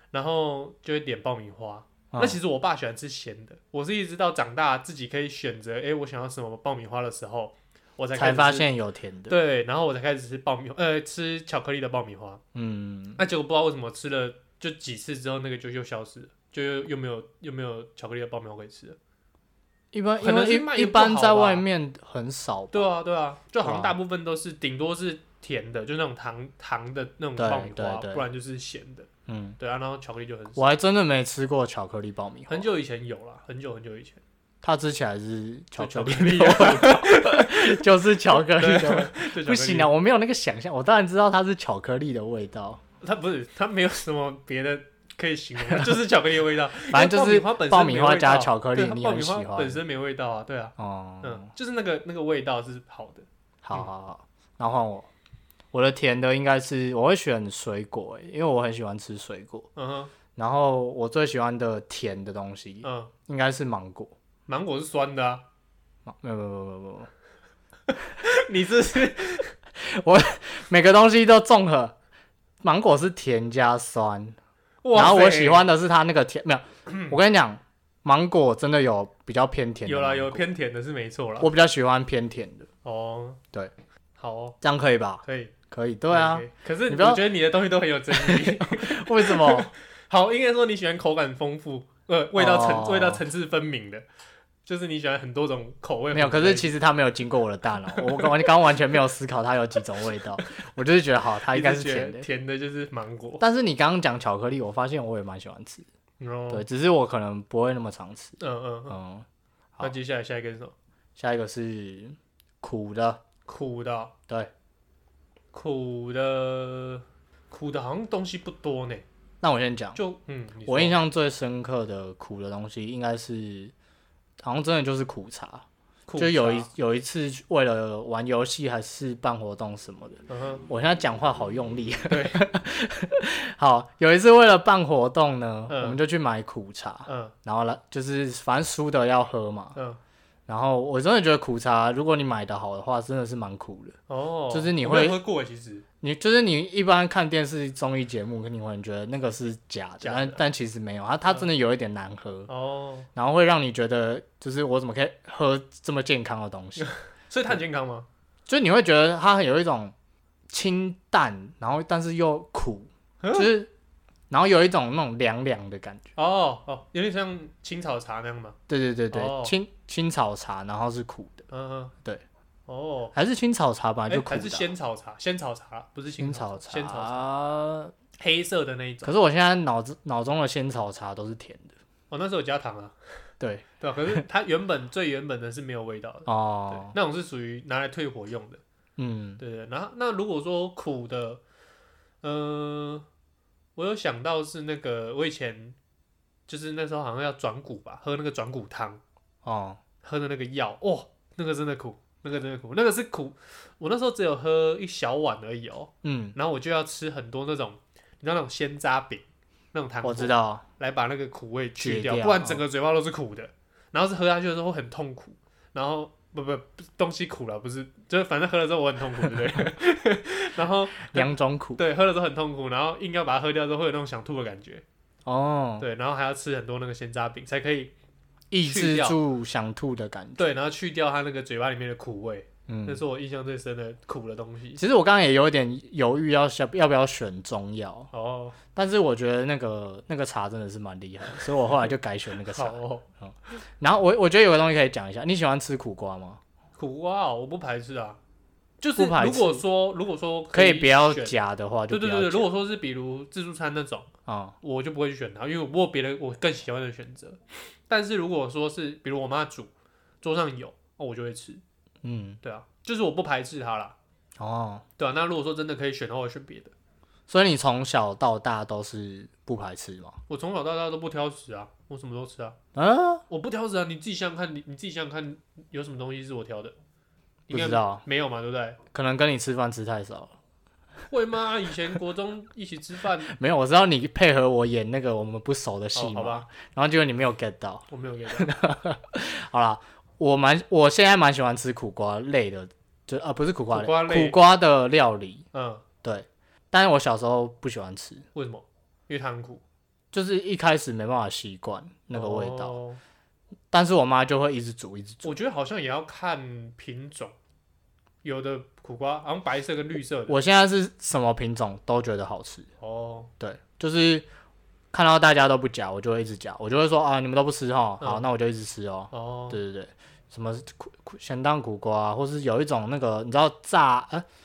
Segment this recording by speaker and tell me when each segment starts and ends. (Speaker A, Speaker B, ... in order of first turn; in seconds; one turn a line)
Speaker A: 0.1-8.7
Speaker B: 2.1-2.4
Speaker B: 8.2-9.4
Speaker A: 9.3-12.4
Speaker B: 12.5-13.2
Speaker A: 13.2-19.0
Speaker B: 19.9-22.9
Speaker A: 20.2-21.6
Speaker A: 22.7-30.7
Speaker B: 23.6-23.9
Speaker B: 27.4-28.2
Speaker B: 29.3-29.6
Speaker B: 30.6-32.6
Speaker A: 32.5-34.2
Speaker B: 34.6-42.8
Speaker A: 35.8-39.9
Speaker A: 43.0-53.9
Speaker B: 46.9-49.8
Speaker B: 50.8-51.5
Speaker B: 53.6-55.1
Speaker B: 55.7-59.7
Speaker A: 59.8-60.1
Speaker B: 60.4-64.1
Speaker A: 62.8-63.1
Speaker A: 64.5-65.4
Speaker B: 66.0-67.1
Speaker A: 67.9-69.5
Speaker B: 69.8-71.9
Speaker B: 72.6-74.4
Speaker A: 74.8-75.7
Speaker B: 74.9-80.5
Speaker A: 76.9-77.2
Speaker A: 79.8-81.5
Speaker B: 81.4-82.7
Speaker A: 82.8-83.4
Speaker A: 84.2-84.6
Speaker B: 84.6-87.2
Speaker A: 85.2-85.5
Speaker A: 86.1-94.0
Speaker B: 88.1-89.7
Speaker B: 92.3-93.2
Speaker A: 94.7-96.7
Speaker B: 96.1-102.3
Speaker A: 97.9-98.8
Speaker A: 101.4-103.4
Speaker B: 103.4-105.8
Speaker A: 106.2-106.6
Speaker B: 106.5-108.4
Speaker A: 108.4-109.0
Speaker B: 108.9-109.2
Speaker A: 109.8-110.7
Speaker B: 111.2-113.2
Speaker A: 113.5-114.1
Speaker A: 115.5-119.0
Speaker B: 119.4-120.0
Speaker A: 120.0-121.0
Speaker B: 120.7-123.7
Speaker B: 124.4-125.6
Speaker A: 126.1-126.7
Speaker B: 126.2-139.8
Speaker A: 130.3-130.6
Speaker A: 132.1-132.5
Speaker A: 135.7-136.0
Speaker A: 137.1-137.3
Speaker B: 140.5-144.0
Speaker A: 144.1-145.8
Speaker B: 144.5-145.2
Speaker B: 146.0-152.5
Speaker A: 150.0-150.4
Speaker A: 152.5-153.1
Speaker B: 153.1-156.9
Speaker A: 156.8-158.1
Speaker B: 158.5-159.9
Speaker B: 160.5-163.7
Speaker A: 163.2-163.6
Speaker B: 164.3-166.1
Speaker A: 166.2-168.6
Speaker B: 168.7-171.5
Speaker A: 169.1-169.6
Speaker A: 171.5-171.9
Speaker A: 172.7-173.1
Speaker B: 173.1-174.7
Speaker A: 174.1-177.2
Speaker B: 176.2-177.9
Speaker A: 178.2-179.2
Speaker B: 179.0-181.8
Speaker A: 182.1-182.9
Speaker B: 183.4-183.6
Speaker A: 183.8-188.6
Speaker B: 186.2-186.9
Speaker B: 189.0-189.4
Speaker A: 189.4-191.4
Speaker A: 192.2-193.1
Speaker A: 193.8-195.8
Speaker A: 196.5-199.0
Speaker B: 199.4-199.8
Speaker A: 200.0-224.8
Speaker B: 206.0-206.3
Speaker B: 210.0-210.6
Speaker B: 211.8-212.6
Speaker B: 221.0-221.8
Speaker B: 225.2-225.8
Speaker A: 225.8-227.9
Speaker B: 228.5-230.4
Speaker A: 228.6-229.2
Speaker A: 230.4-234.8
Speaker B: 232.7-233.0
Speaker B: 234.8-238.1
Speaker A: 238.1-238.6
Speaker B: 238.7-246.4
Speaker A: 242.4-243.0
Speaker A: 246.8-248.2
Speaker A: 248.8-251.3
Speaker B: 248.9-249.6
Speaker B: 250.5-252.5
Speaker A: 251.9-254.1
Speaker B: 254.2-254.6
Speaker A: 254.6-259.7
Speaker A: 260.2-261.6
Speaker B: 262.0-262.4
Speaker A: 262.4-263.9
Speaker B: 264.4-264.8
Speaker A: 265.0-266.7
Speaker B: 267.3-270.2
Speaker A: 270.3-272.6
Speaker B: 272.7-273.2
Speaker A: 273.3-276.7
Speaker B: 277.5-278.0
Speaker A: 277.5-278.8
Speaker B: 278.9-280.3
Speaker A: 281.1-283.3
Speaker B: 283.3-295.4
Speaker A: 285.9-286.4
Speaker A: 287.9-288.5
Speaker A: 293.7-294.4
Speaker A: 295.5-295.8
Speaker B: 296.0-298.2
Speaker A: 298.3-299.6
Speaker B: 300.1-302.7
Speaker A: 302.1-303.0
Speaker B: 303.7-305.3
Speaker A: 305.2-307.3
Speaker A: 308.2-310.4
Speaker B: 310.3-312.7
Speaker A: 312.8-313.3
Speaker B: 313.4-314.2
Speaker B: 314.9-324.2
Speaker A: 318.0-318.2
Speaker A: 319.1-319.6